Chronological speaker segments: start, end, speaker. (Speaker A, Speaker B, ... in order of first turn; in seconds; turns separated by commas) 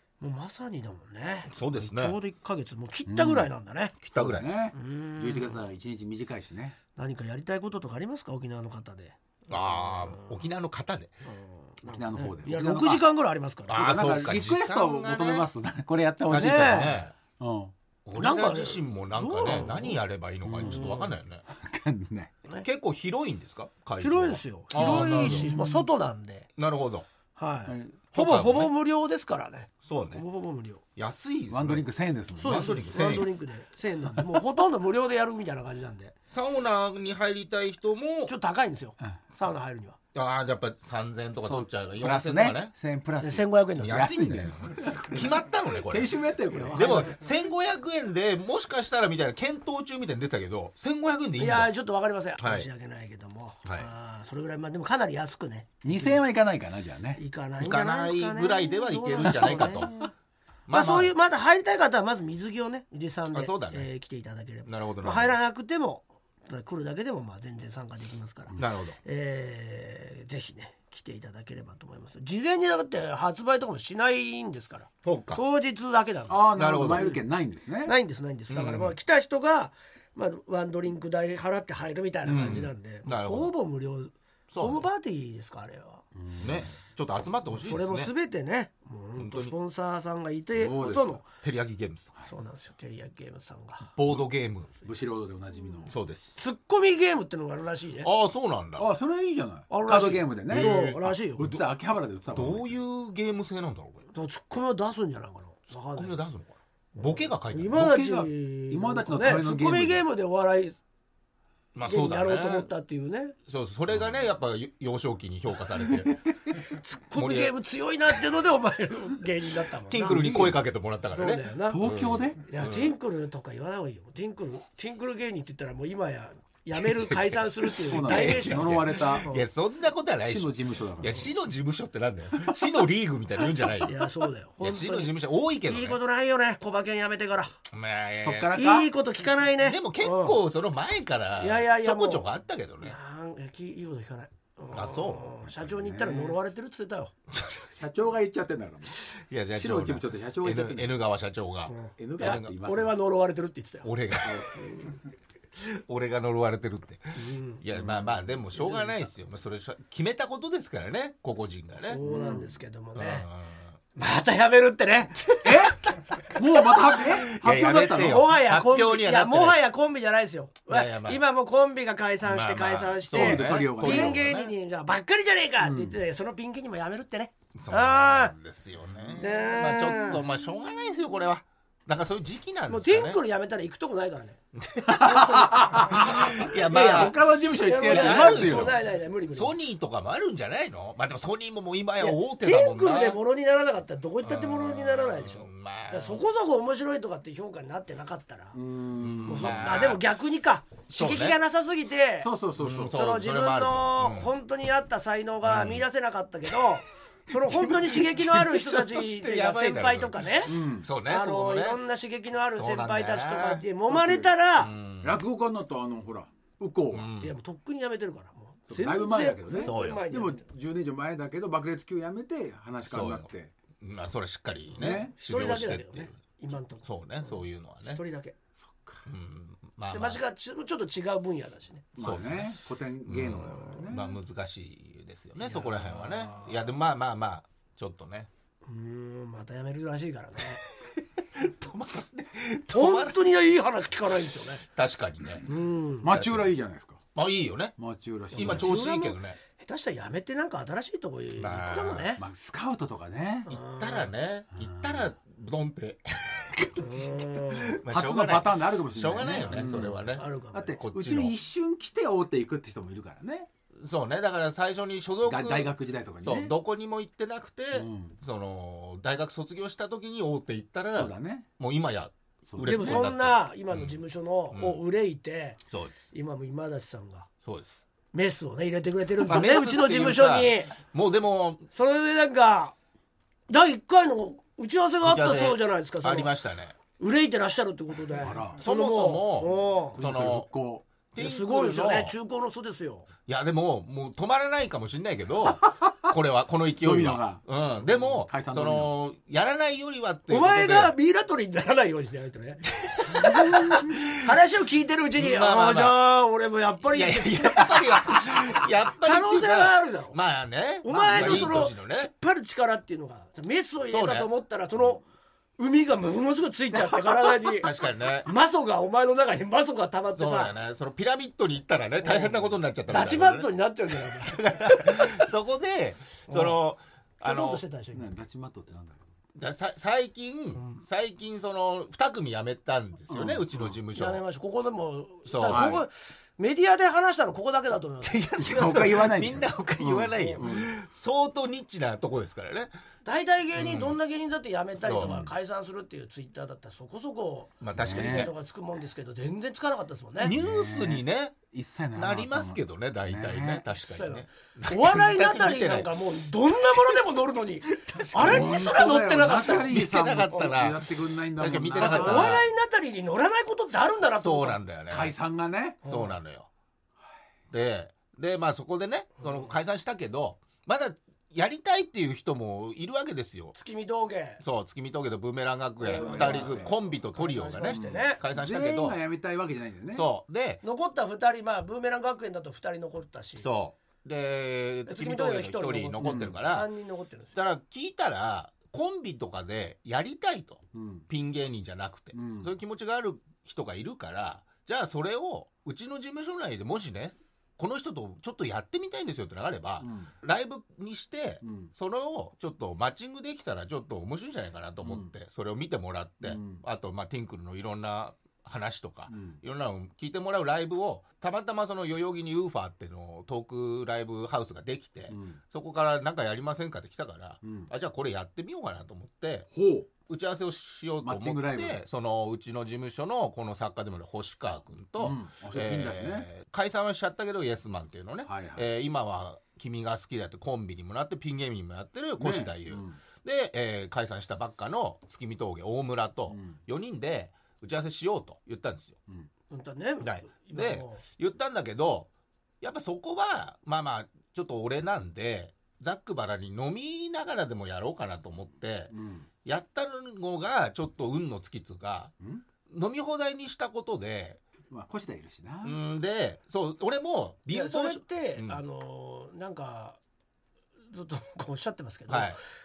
Speaker A: 0.2-4.0, Speaker B: 1.5-2.2, Speaker C: 3.1-3.5, Speaker C: 4.0-6.8, Speaker B: 4.1-4.5, Speaker A: 4.7-5.6, Speaker A: 7.0-10.4, Speaker B: 9.5-11.2, Speaker A: 11.2-14.1, Speaker C: 11.9-13.1, Speaker B: 13.7-15.5, Speaker C: 13.8-17.7, Speaker B: 16.3-17.1, Speaker A: 16.3-17.0, Speaker B: 18.1-21.4, Speaker A: 18.1-20.0, Speaker C: 19.5-19.9, Speaker C: 20.4-22.3, Speaker A: 20.6-21.1, Speaker B: 22.6-25.5, Speaker A: 24.0-26.5, Speaker C: 24.7-25.9, Speaker B: 26.6-27.1, Speaker A: 27.4-30.8, Speaker C: 27.7-28.1, Speaker B: 28.1-28.7, Speaker B: 29.8-30.2, Speaker B: 31.0-31.9, Speaker C: 31.5-33.1, Speaker A: 32.4-36.1, Speaker B: 32.4-33.3, Speaker B: 36.3-38.3, Speaker A: 38.3-40.0, Speaker B: 40.1-42.7, Speaker C: 41.5-47.2, Speaker A: 43.2-44.2, Speaker B: 43.8-46.2, Speaker A: 46.5-47.1, Speaker B: 46.7-51.7, Speaker A: 51.4-56.2, Speaker B: 52.4-52.7, Speaker C: 55.8-57.2, Speaker A: 57.2-59.9, Speaker B: 57.6-60.1, Speaker C: 59.2-60.1, Speaker B: 60.7-61.1, Speaker A: 60.7-77.2, Speaker B: 63.3-63.9, Speaker B: 64.7-65.4, Speaker B: 68.6-69.0, Speaker B: 75.0-75.4, Speaker C: 76.3-78.0, Speaker B: 76.5-77.2, Speaker A: 77.8-86.0, Speaker B: 78.5-79.0, Speaker C: 82.3-82.7, Speaker B: 82.3-83.5, Speaker B: 84.5-84.9, Speaker C: 86.2-86.7, Speaker B: 86.4-88.1, Speaker A: 87.6-91.2, Speaker B: 89.2-89.5, Speaker C: 90.6-91.2, Speaker B: 91.2-92.1, Speaker A: 92.2-93.9, Speaker B: 94.0-94.7, Speaker C: 94.8-96.0, Speaker B: 95.9-96.3, Speaker A: 96.4-98.1, Speaker B: 98.0-98.9, Speaker C: 98.8-102.7, Speaker A: 99.7-101.5, Speaker B: 100.5-101.6, Speaker B: 102.3-104.0, Speaker A: 104.1-106.2, Speaker B: 106.0-107.9, Speaker A: 107.0-110.8, Speaker C: 107.7-110.0, Speaker B: 111.7-112.7, Speaker A: 111.8-113.4, Speaker B: 113.5-116.2, Speaker C: 115.8-116.2, Speaker A: 116.6-120.3, Speaker B: 117.2-117.6, Speaker B: 119.9-123.0, Speaker C: 120.0-120.6, Speaker A: 121.1-121.8, Speaker C: 121.7-122.4, Speaker A: 122.4-129.5, Speaker B: 126.7-136.0, Speaker C: 127.8-129.3, Speaker C: 130.2-131.3, Speaker A: 133.8-135.1, Speaker A: 135.7-137.5, Speaker B: 137.7-138.5, Speaker C: 138.2-138.9, Speaker A: 138.5-140.4, Speaker B: 139.6-143.0, Speaker A: 141.4-142.3, Speaker A: 142.8-147.1, Speaker B: 144.7-145.5, Speaker C: 145.8-146.4, Speaker B: 147.3-147.8, Speaker C: 147.8-150.9, Speaker B: 149.1-152.5, Speaker A: 151.7-153.9, Speaker C: 151.9-152.9, Speaker B: 153.8-154.5, Speaker C: 154.2-154.5, Speaker A: 154.5-155.0, Speaker B: 155.6-162.0, Speaker A: 157.2-157.6, Speaker C: 157.7-158.9, Speaker A: 161.9-163.3, Speaker C: 162.0-162.5, Speaker B: 162.9-163.8, Speaker A: 163.9-167.2, Speaker C: 165.4-168.3, Speaker B: 166.9-169.6, Speaker A: 167.8-178.3, Speaker B: 170.7-171.2, Speaker B: 172.2-174.5, Speaker C: 173.1-174.2, Speaker C: 175.6-176.0, Speaker B: 177.6-183.2, Speaker A: 179.2-180.2, Speaker A: 182.7-189.6, Speaker B: 184.5-193.2, Speaker C: 184.9-188.8, Speaker A: 192.0-198.6, Speaker B: 194.2-196.2, Speaker C: 198.5-199.6, Speaker B: 199.0-200.0, Speaker A: 199.2-202.3, Speaker B: 200.9-201.4, Speaker C: 202.2-203.0, Speaker B: 202.6-204.3, Speaker A: 202.9-214.8, Speaker B: 205.4-205.8, Speaker B: 207.4-211.8, Speaker C: 210.4-210.9, Speaker B: 212.5-213.6, Speaker C: 213.9-214.3, Speaker B: 214.6-215.2, Speaker C: 215.0-217.1, Speaker B: 216.9-217.3, Speaker A: 217.2-220.4, Speaker C: 218.7-223.5, Speaker B: 219.6-220.1, Speaker B: 222.8-223.3, Speaker B: 223.8-226.2, Speaker C: 224.7-225.1, Speaker A: 225.2-228.3, Speaker B: 226.8-228.0, Speaker C: 228.6-229.1, Speaker B: 229.1-230.2, Speaker A: 229.9-231.9, Speaker B: 232.0-232.5, Speaker C: 232.0-234.1, Speaker B: 233.0-238.3, Speaker A: 235.4-236.7, Speaker A: 238.7-240.6, Speaker B: 241.2-243.2, Speaker A: 242.7-244.7, Speaker B: 244.6-245.5, Speaker A: 245.5-246.1, Speaker C: 246.0-247.0, Speaker B: 246.1-246.5, Speaker B: 247.2-247.8, Speaker C: 247.8-248.8, Speaker A: 248.3-252.2, Speaker B: 248.3-249.4, Speaker B: 251.4-252.1, Speaker C: 252.2-253.6, Speaker A: 253.5-254.1, Speaker B: 253.5-260.2, Speaker C: 254.6-255.1, Speaker A: 256.8-257.8, Speaker C: 257.9-263.5, Speaker A: 259.6-260.8, Speaker B: 260.8-261.4, Speaker B: 263.8-274.0, Speaker C: 265.2-266.6, Speaker C: 267.7-268.1, Speaker C: 270.9-271.5, Speaker C: 272.5-273.1, Speaker A: 272.6-275.6, Speaker B: 274.5-274.8, Speaker B: 275.7-275.9, Speaker A: 276.1-277.3, Speaker B: 277.4-277.8, Speaker A: 278.1-280.8, Speaker B: 279.2-281.7, Speaker A: 281.7-282.8, Speaker A: 283.5-286.3, Speaker B: 285.0-286.8, Speaker A: 287.0-290.0, Speaker C: 288.2-288.6, Speaker B: 288.6-290.5, Speaker C: 289.9-290.9, Speaker B: 291.1-292.2, Speaker A: 291.2-293.1, Speaker B: 293.3-300.9, Speaker C: 296.8-298.9, Speaker A: 300.3-310.2, Speaker B: 302.9-304.2, Speaker B: 305.2-306.0, Speaker B: 306.9-312.1, Speaker A: 310.8-315.0, Speaker C: 311.1-311.4, Speaker B: 313.9-314.3, Speaker A: 315.6-317.7, Speaker B: 317.4-318.3, Speaker A: 318.2-320.6, Speaker B: 320.1-327.6, Speaker A: 322.0-325.3, Speaker A: 326.3-326.6, Speaker A: 327.2-328.1, Speaker C: 327.9-329.0, Speaker B: 329.4-334.2, Speaker A: 330.6-330.8, Speaker C: 333.1-333.8, Speaker A: 333.9-339.1, Speaker B: 335.3-335.8, Speaker C: 335.4-335.9, Speaker B: 338.0-342.7, Speaker C: 338.4-340.7, Speaker A: 340.2-340.4, Speaker A: 343.1-350.4, Speaker B: 343.6-344.0, Speaker B: 344.8-345.2, Speaker C: 345.0-345.3, Speaker B: 347.6-348.3, Speaker C: 347.8-348.3, Speaker B: 350.2-351.4, Speaker C: 350.3-353.7, Speaker B: 351.9-357.0, Speaker A: 353.9-359.7, Speaker B: 357.7-362.5, Speaker C: 358.2-362.4, Speaker A: 361.8-364.6, Speaker B: 364.2-365.1, Speaker C: 364.9-365.8, Speaker A: 365.9-366.1, Speaker B: 365.9-366.5, Speaker B: 367.5-373.6, Speaker A: 373.6-374.4, Speaker B: 374.4-379.0, Speaker A: 375.8-378.2, Speaker C: 375.9-376.7, Speaker C: 377.6-380.1, Speaker B: 379.9-380.6, Speaker A: 380.6-383.5, Speaker B: 383.4-386.7, Speaker A: 384.9-387.4, Speaker C: 386.0-386.4, Speaker B: 387.4-419.5, Speaker C: 390.7-391.1, Speaker C: 392.1-392.5, Speaker C: 399.8-400.1, Speaker C: 401.4-401.7, Speaker C: 404.8-405.1, Speaker C: 406.2-406.6, Speaker C: 409.1-409.4, Speaker C: 415.1-415.4, Speaker C: 417.4-417.7, Speaker C: 419.5-419.9, Speaker B: 420.1-439.0, Speaker C: 421.0-421.8, Speaker C: 425.0-426.3, Speaker C: 428.3-428.6, Speaker C: 432.2-433.0, Speaker C: 436.3-436.6, Speaker A: 439.5-441.0, Speaker B: 440.0-442.1, Speaker B: 442.6-448.9, Speaker C: 448.9-449.3, Speaker B: 449.4-452.1, Speaker C: 452.2-452.4, Speaker B: 452.7-454.4, Speaker C: 454.7-455.8, Speaker B: 455.6-458.6, Speaker A: 457.5-460.0, Speaker A: 460.9-462.4, Speaker B: 462.1-462.4